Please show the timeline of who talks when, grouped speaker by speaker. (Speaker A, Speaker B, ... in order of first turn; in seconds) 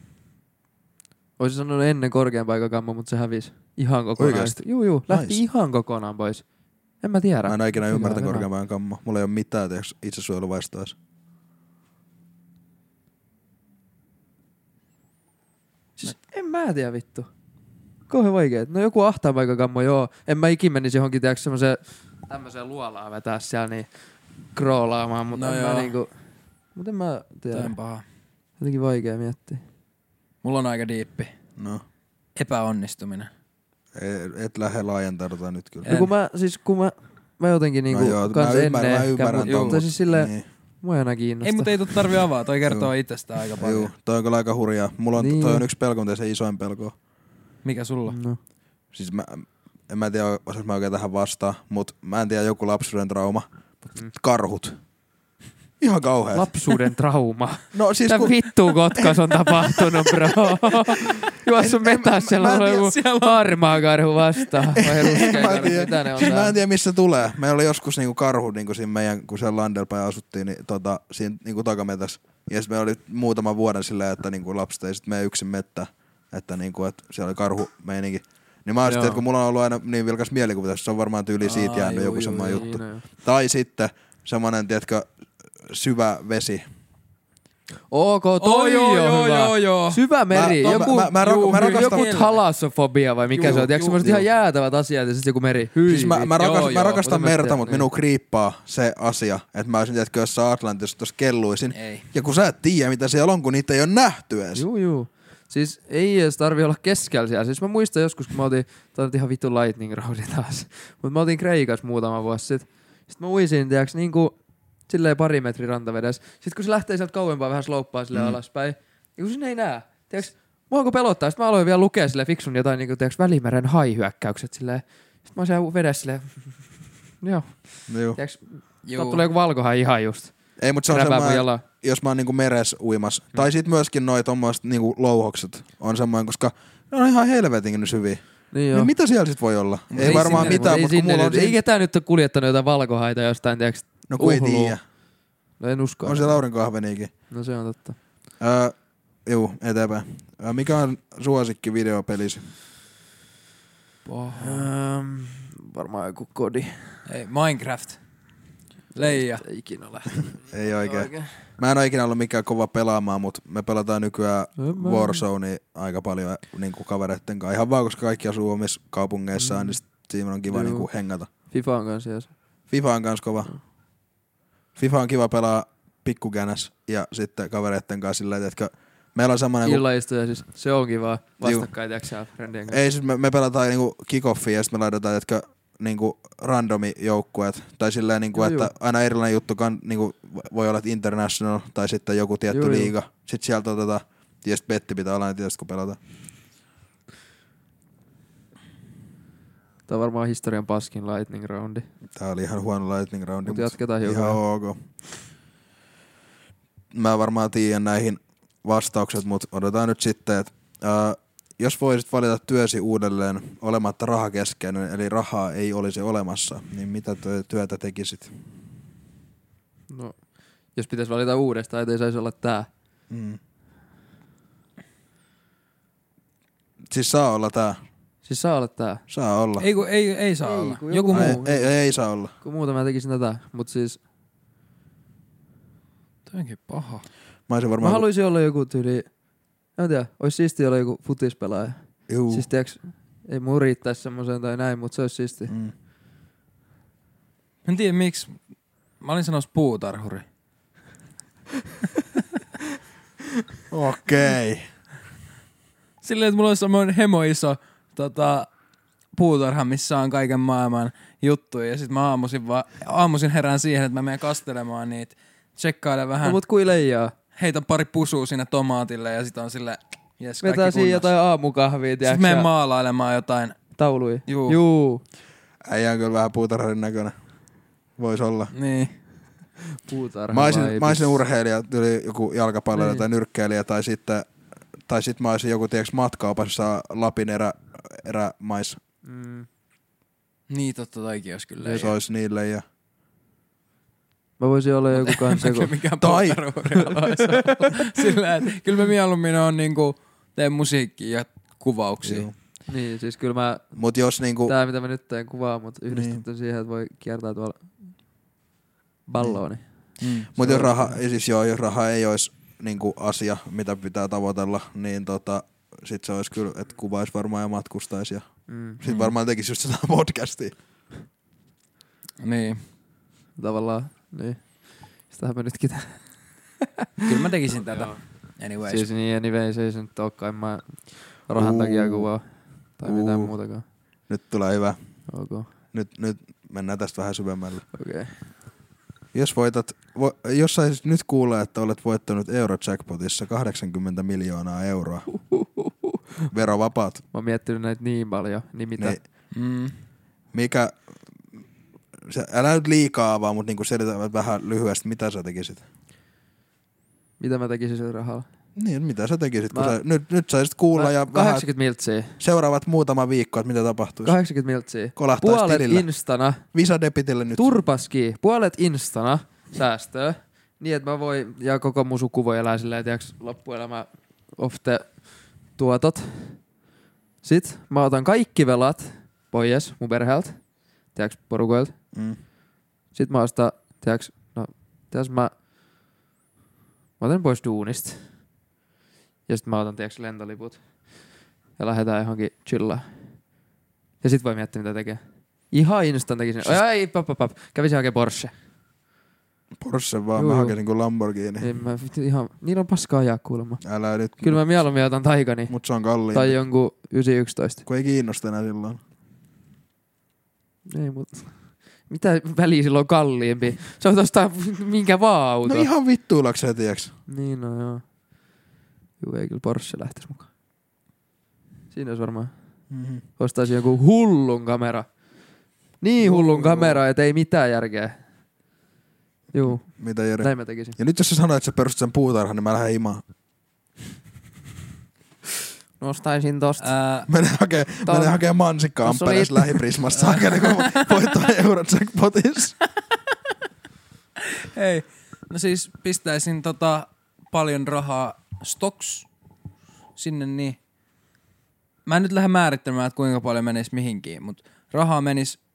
Speaker A: 1.4-6.4, 7.0-8.5, 16.0-17.3, 18.1-23.9, 24.5-26.1, 26.7-27.7, 28.6-29.6, 35.9-41.8, 45.2-45.6, 48.1-48.4, 56.3-66.6, 82.5-83.0, 87.9-96.5, 97.0-97.9, 104.5-114.4, 114.9-130.3, 130.9-131.6, 138.5-138.9, 140.0-144.8, 145.6-146.4, 147.3-147.9, 154.3-157.0, 158.9-161.4, 164.6-165.2, 169.4-169.8, 170.5-170.9, 171.4-172.3, 179.6-182.8, 188.3-188.7, 192.5-192.9, 199.9-201.8, 203.4-204.4, 219.9-220.2, 220.7-222.7, 228.2-229.0, 230.4-231.7, 232.4-234.0, 237.8-239.1, 239.8-245.5, 266.2-267.1, 270.4-272.5, 273.8-275.0, 279.8-281.2, 282.7-283.0, 289.0-289.4, 291.6-291.9, 294.4-295.7, 296.7-298.0, 302.7-303.6, 304.4-307.7, 309.1-311.0, 318.5-318.8, 323.4-326.1, 328.6-332.2, 332.8-333.6, 335.1-335.5, 337.7-338.1, 345.3-346.0, 347.1-349.0, 357.2-358.2, 359.5-359.8, 360.7-362.2, 364.0-366.4, 367.4-376.4, 377.2-380.4, 380.9-381.7, 382.9-385.3, 387.0-388.0, 389.3-390.6, 391.6-392.9, 394.0-398.3, 400.1-400.6, 401.4-403.6, 404.2-405.5, 406.1-407.6, 410.7-415.7, 417.1-417.8, 419.0-420.3, 421.7-422.3, 423.2-424.9, 425.8-428.0, 429.3-430.8, 435.8-436.7, 437.8-438.2, 438.8-439.6
Speaker B: 4.2-5.4, 7.4-10.9, 31.6-31.8, 33.9-35.9, 37.9-40.4, 42.7-42.9, 43.6-47.0, 48.9-54.8, 55.8-56.5, 57.7-62.9, 64.7-85.0, 85.6-86.6, 90.3-92.1, 93.4-94.2, 95.9-104.6, 127.9-128.2, 130.6-141.6, 144.1-144.8, 146.0-147.1, 148.4-148.7, 149.2-152.4, 160.5-171.3, 172.7-173.5, 174.8-179.8, 181.4-181.7, 182.7-196.0, 202.1-204.8, 206.9-218.3, 223.1-223.4, 226.9-227.8, 229.1-229.7, 231.1-232.3, 237.5-238.0, 242.1-242.4, 253.7-254.7, 275.6-277.1, 278.0-278.5, 280.3-284.3, 284.9-288.8, 291.7-292.6, 296.0-296.4, 302.0-302.3, 303.8-304.5, 305.9-306.2, 310.3-318.2, 318.8-320.5, 331.3-332.1, 332.8-333.3, 334.1-334.8, 335.7-337.6, 339.1-345.1, 346.3-347.0, 350.3-350.8, 352.0-355.6, 358.6-361.4, 362.2-364.1, 364.9-365.9, 366.5-367.5, 381.9-382.2, 399.6-401.5, 403.6-404.4, 405.5-406.4, 407.6-408.8, 415.4-416.9, 422.7-423.0, 426.0-426.8, 429.5-433.0, 437.1-442.6
Speaker C: 25.3-25.9, 27.5-28.0, 30.4-31.3, 32.4-33.3, 35.8-36.1, 39.4-39.8, 41.4-43.9, 47.6-48.2, 62.9-63.4, 78.8-79.2, 81.4-82.7, 88.4-92.4, 93.3-94.0, 96.3-97.0, 101.7-102.0, 128.8-129.2, 139.9-140.7, 154.1-154.7, 157.1-158.0, 158.9-159.5, 229.6-231.4, 236.3-237.1, 247.7-248.3, 249.0-250.2, 256.0-258.5, 259.1-266.4, 267.4-271.1, 272.0-273.6, 274.3-274.6, 278.5-278.9, 290.5-291.9, 294.9-302.3, 310.0-310.3, 318.8-319.1, 322.2-322.6, 327.0-328.9, 349.3-349.7, 436.6-437.1, 439.9-441.3, 444.2-449.1, 450.0-450.6, 451.9-455.4